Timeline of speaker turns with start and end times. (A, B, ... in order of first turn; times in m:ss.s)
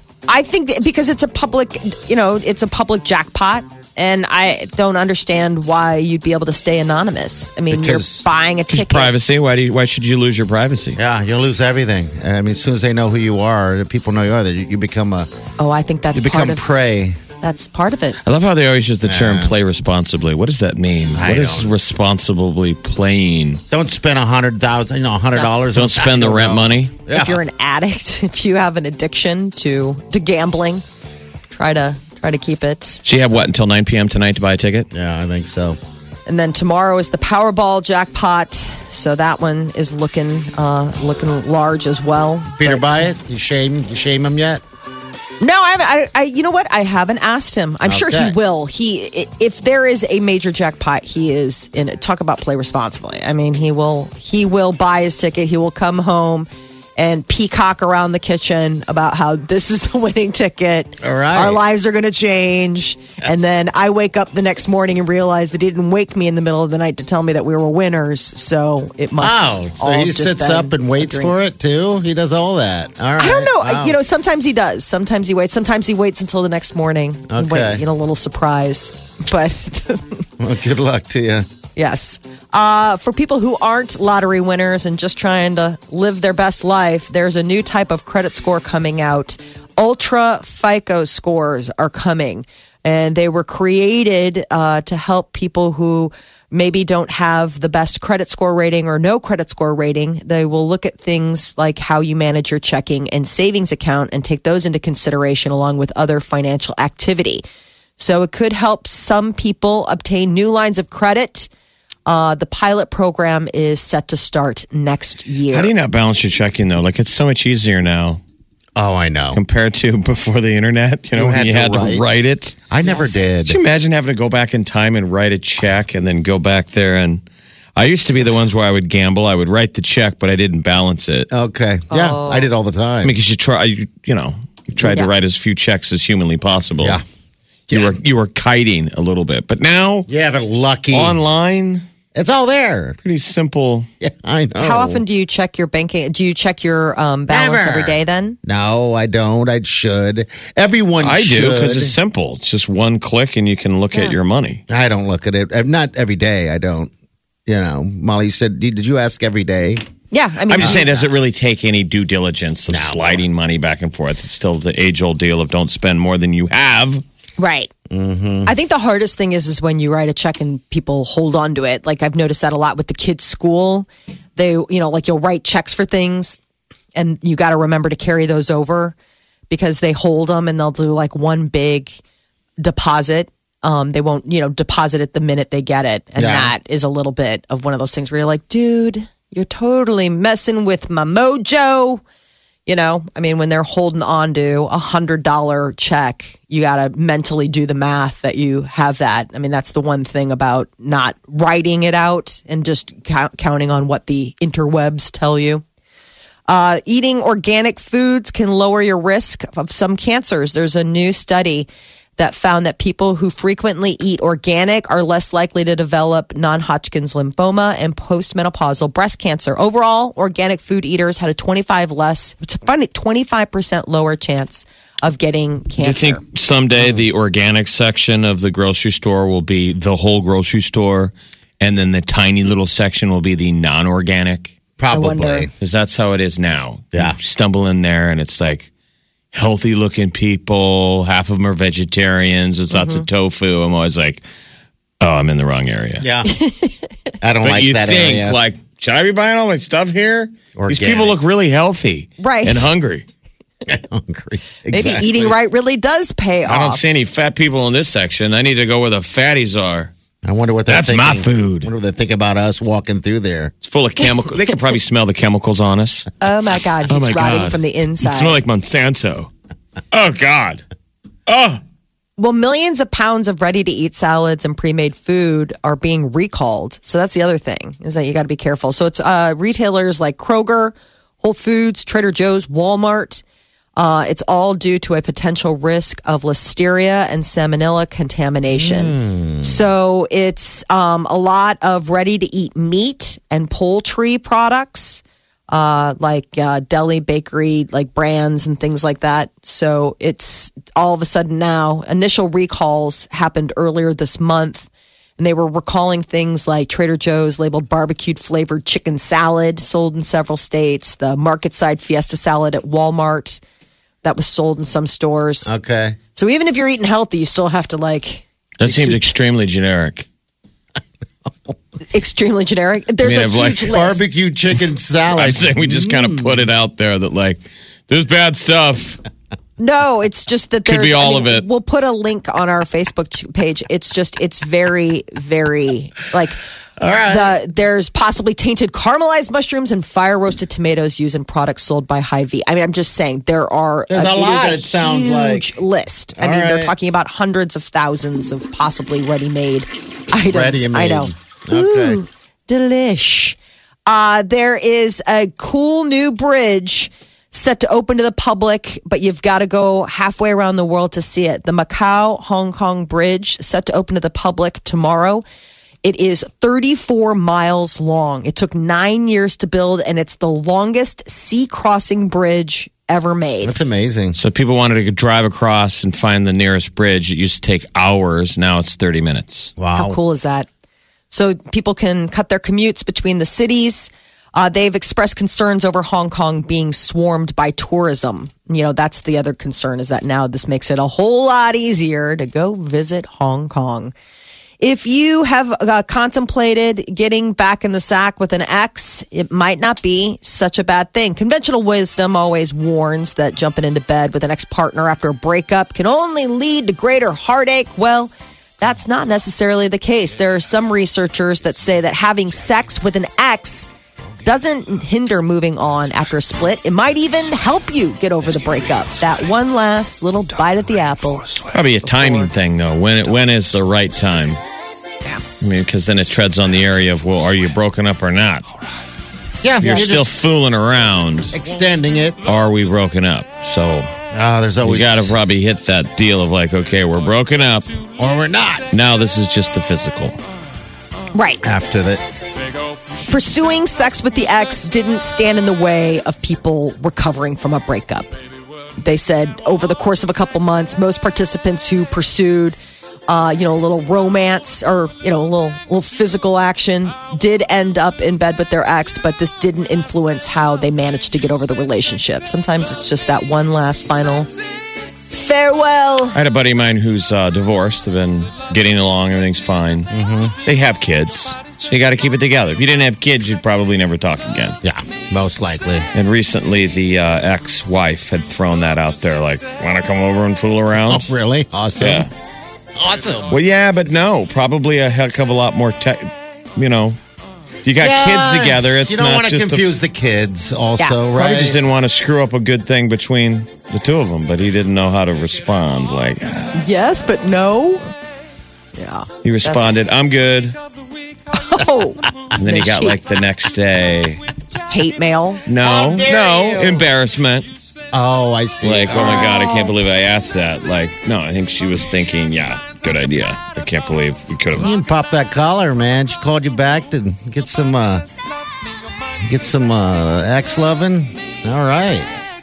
0:00.3-0:09.1 A
0:07.7-0:08.3 B
0:08.7-0:11.0 C
0:11.0-0:15.3 B
0:15.6-0:16.7 A
0:16.1-0:17.2 B
0:17.4-0:18.2 A
0:18.2-0:23.6 C
0:19.1-0:19.5 B
0:21.2-0:21.7 B
0:23.7-0:27.4 B
0:25.7-0:27.0 C
0:27.1-0:30.8 A
0:31.5-0:33.0 A
0:33.1-0:34.9 C
0:34.9-0:35.8 B
0:36.3-0:43.0 A
0:42.6-0:44.6 B
0:45.4-1:11.3 A
0:47.8-0:48.4 B
1:01.0-1:01.6 B
1:09.2-1:14.0 B
1:13.2-1:20.3 A
1:17.3-1:17.8 B
1:20.4-1:21.5 B
1:21.8-1:47.4 A
1:48.0-1:51.5 A
1:52.1-1:55.7 A
1:55.5-1:58.2 C
1:58.8-1:59.4 B
1:59.3-2:02.6 C
2:01.1-2:03.6 B
2:02.8-2:03.2 A
2:03.4-2:07.2 C
2:07.8-2:11.3 C
2:11.3-2:13.2 B
2:11.9-2:12.5 A
2:13.0-2:17.0 C
2:14.8-2:15.1 A
2:17.7-2:18.0 B
2:17.7-2:20.1 C
2:20.1-2:21.2 B
2:20.9-2:21.8 C
2:22.2-2:23.0 B
2:23.0-2:23.9 C
2:24.0-2:25.0 B
2:24.6-2:28.4 A
2:27.3-2:32.0 B
2:31.0-2:34.6 C
2:34.7-2:36.9 B
2:37.5-2:39.8 B
2:40.1-2:40.9 A
2:40.5-2:47.0 C
2:40.6-2:41.0 B
2:42.7-2:43.2 B
2:47.4-2:47.7 A
2:47.9-2:48.5 B
2:48.5-2:56.4 A
2:57.0-2:59.0 A
2:59.5-3:02.0 A
3:02.6-3:12.0 A
3:06.2-3:06.6 B
3:12.7-3:25.6 A
3:26.5-3:46.2 A
3:45.8-3:54.6 C
3:46.8-3:47.0 B
3:54.8-3:55.5 B
3:54.9-3:55.5 A
3:55.6-3:58.7 C
3:59.3-4:04.2 C
4:02.7-4:03.1 A
4:05.0-4:06.1 C
4:06.0-4:06.4 B
4:06.2-4:06.9 A
4:07.2-4:08.4 B
4:07.4-4:13.1 C
4:10.6-4:11.2 B
4:12.2-4:12.7 A
4:13.7-4:15.4 B
4:14.7-4:16.8 A
4:16.5-4:19.9 C
4:20.2-4:23.5 B
4:20.7-4:21.7 C
4:23.6-4:26.1 C
4:26.2-4:28.4 A
4:26.7-4:29.3 C
4:29.9-4:30.6 C
4:31.3-4:31.6 C
4:32.2-4:43.2 A
4:43.8-5:13.4 A
4:48.5-4:49.6 B
5:14.0-5:15.5 A
5:15.5-5:16.0 B
5:16.2-5:18.9 A
5:18.6-5:20.1 C
5:21.9-5:24.0 A
5:23.0-5:23.8 C
5:23.6-5:26.4 B
5:25.1-5:29.0 C
5:29.6-5:36.4 A
5:30.7-5:31.4 C
5:36.8-5:37.4 B
5:37.1-6:05.2 A
5:43.9-5:45.5 B
5:46.2-5:46.7 B
5:50.2-5:52.0 B
6:05.8-6:13.5 A
6:13.4-6:14.2 B
6:14.2-6:19.5 C
6:19.6-6:20.0 B
6:19.7-6:20.5 A
6:21.1-6:33.9 A
6:34.6-6:53.7 A
6:54.2-7:02.3 A
7:01.5-7:04.4 C
7:05.4-7:08.5 C
7:09.4-7:10.1 B
7:09.6-7:11.4 C
7:09.6-7:09.9 A
7:11.3-7:12.2 B
7:12.2-7:13.9 C
7:14.1-7:15.2 B
7:14.6-7:17.8 C
7:18.0-7:18.7 B
7:18.7-7:20.2 C
7:21.1-7:21.4 A
7:21.4-7:22.0 B
7:23.1-7:28.1 A
7:28.8-7:44.3 A
7:45.1-7:46.2 A
7:46.2-7:49.9 C
7:49.9-7:50.4 B
7:50.4-7:54.6 C
7:54.6-7:55.9 B
7:55.9-8:01.1 C
8:00.9-8:02.1 B
8:01.8-8:02.1 C
8:02.8-8:03.4 B
8:03.3-8:07.0 C
8:07.6-8:09.7 C
8:07.8-8:11.6 B
8:11.1-8:16.6 C
8:16.6-8:17.9 A
8:18.8-8:19.8 A
8:19.2-8:20.6 C
8:21.3-8:23.0 A
8:22.4-8:24.2 C
8:24.7-8:25.4 A
8:25.5-8:27.5 C
8:25.6-8:26.9 B
8:27.9-8:29.7 B
8:28.6-8:34.7 C
8:29.0-8:29.6 A
8:34.6-8:38.0 B
8:39.2-8:42.1 B